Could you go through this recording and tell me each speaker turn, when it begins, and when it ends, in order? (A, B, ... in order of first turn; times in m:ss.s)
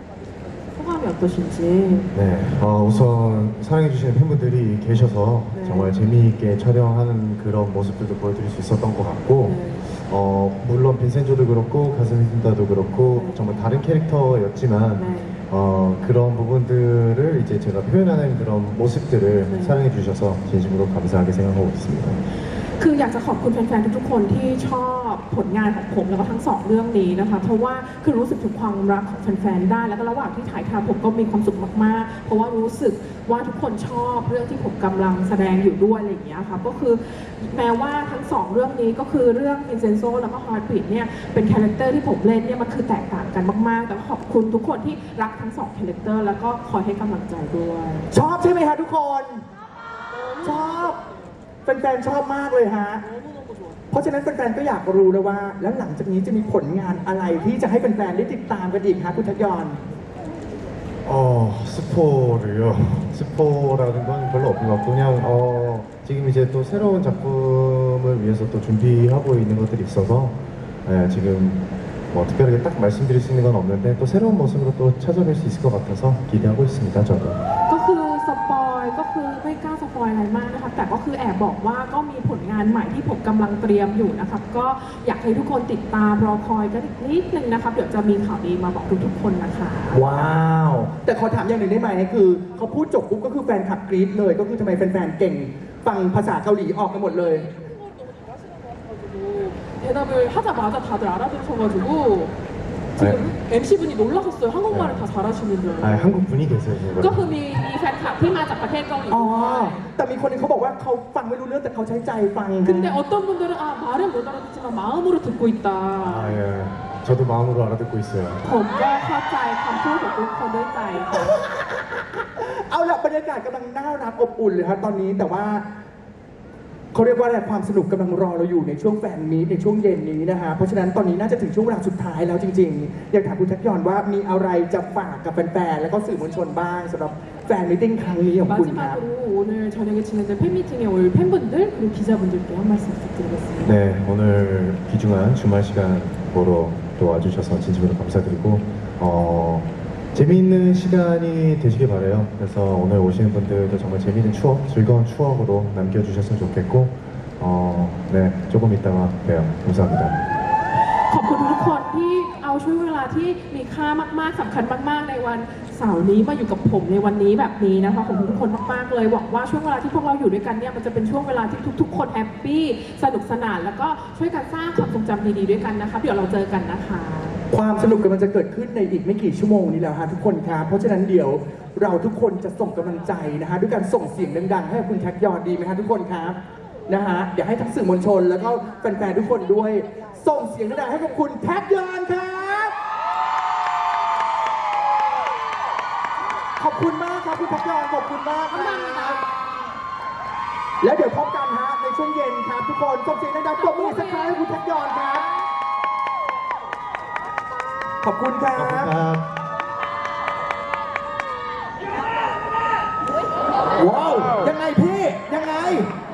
0:00.7-0:02.1 A
0:02.1-0:22.2 B
0:05.5-0:05.9 A
0:09.4-0:09.8 A
0:13.1-0:13.5 A
0:15.0-0:15.4 A
0:19.5-0:19.8 A
0:22.8-0:48.1 A
0:48.1-0:49.4 C
0:50.2-0:50.5 A
0:50.4-0:51.0 C
0:51.6-0:53.0 C
0:53.9-0:59.8 C
1:01.0-1:17.4 B
1:17.7-1:30.0 A
1:29.9-1:37.5 C
1:39.1-1:42.3 A
1:43.0-1:46.2 A
1:43.0-1:43.2 B
1:44.7-1:45.0 B
1:45.8-1:47.3 B
1:46.9-1:49.8 A
1:49.1-1:53.0 C
1:52.6-1:56.4 A
1:56.0-1:58.4 B
1:58.4-2:01.4 A
2:02.4-2:05.6 C
2:06.9-2:19.0 C
2:18.4-2:23.7 A
2:23.6-2:40.3 B
2:41.1-2:57.4 A
2:57.5-3:12.7 C
3:16.6-3:19.2 C
3:18.5-3:19.3 A
3:20.8-3:25.3 C
3:23.6-3:24.4 A
3:28.0-3:28.9 C
3:28.5-3:29.2 B
3:33.7-3:35.9 C